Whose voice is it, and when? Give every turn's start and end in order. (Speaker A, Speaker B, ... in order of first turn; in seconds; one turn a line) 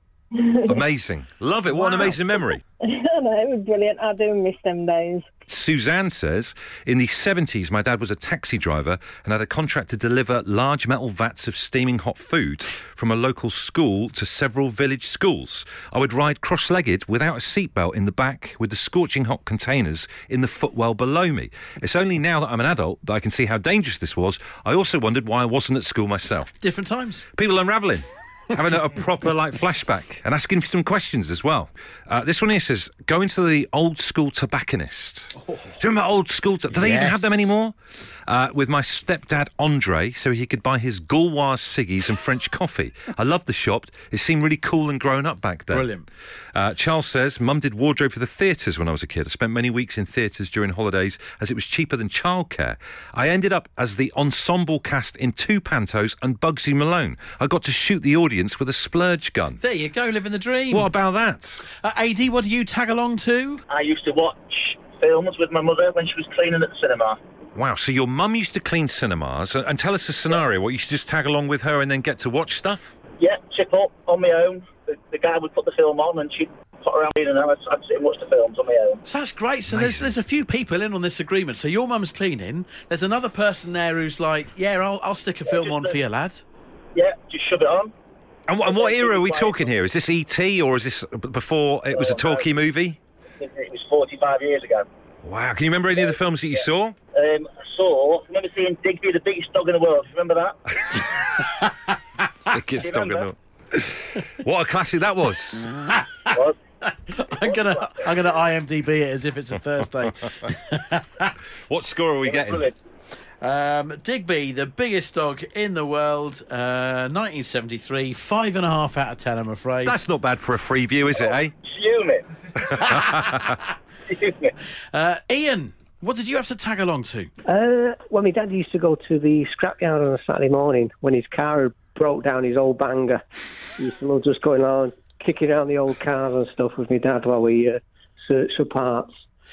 Speaker A: 0.3-0.8
Speaker B: 0.7-2.6
Speaker A: 1.8-2.2
Speaker A: 2.8-5.3
Speaker B: 5.5-26.5
Speaker C: 26.6-27.3
Speaker B: 27.3-37.8
Speaker C: 35.4-35.8
Speaker C: 36.7-37.5
Speaker B: 38.3-45.9
Speaker C: 45.7-46.1
Speaker B: 46.5-59.6
Speaker C: 59.6-60.9
Speaker B: 60.7-61.7
Speaker C: 61.8-63.6
Speaker D: 63.7-67.2
Speaker B: 67.5-73.0
Speaker D: 73.2-79.0
Speaker C: 79.0-86.4
Speaker B: 79.7-80.1
Speaker D: 85.5-86.0
Speaker D: 87.0-87.9
Speaker B: 88.5-93.0
Speaker D: 88.6-89.7
Speaker D: 91.9-92.5
Speaker D: 93.4-94.9
Speaker B: 95.2-97.0
Speaker D: 96.0-100.6
Speaker B: 102.5-105.7
Speaker D: 102.8-103.3
Speaker C: 105.6-111.3
Speaker D: 106.3-106.6
Speaker D: 107.4-107.9
Speaker B: 111.7-112.7
Speaker D: 112.2-112.7
Speaker C: 113.4-120.0
Speaker B: 119.8-121.5
Speaker D: 121.2-122.8
Speaker B: 122.6-123.5
Speaker C: 122.8-123.5
Speaker D: 124.1-124.5
Speaker C: 124.9-127.3
Speaker E: 127.5-133.2
Speaker E: 133.8-139.1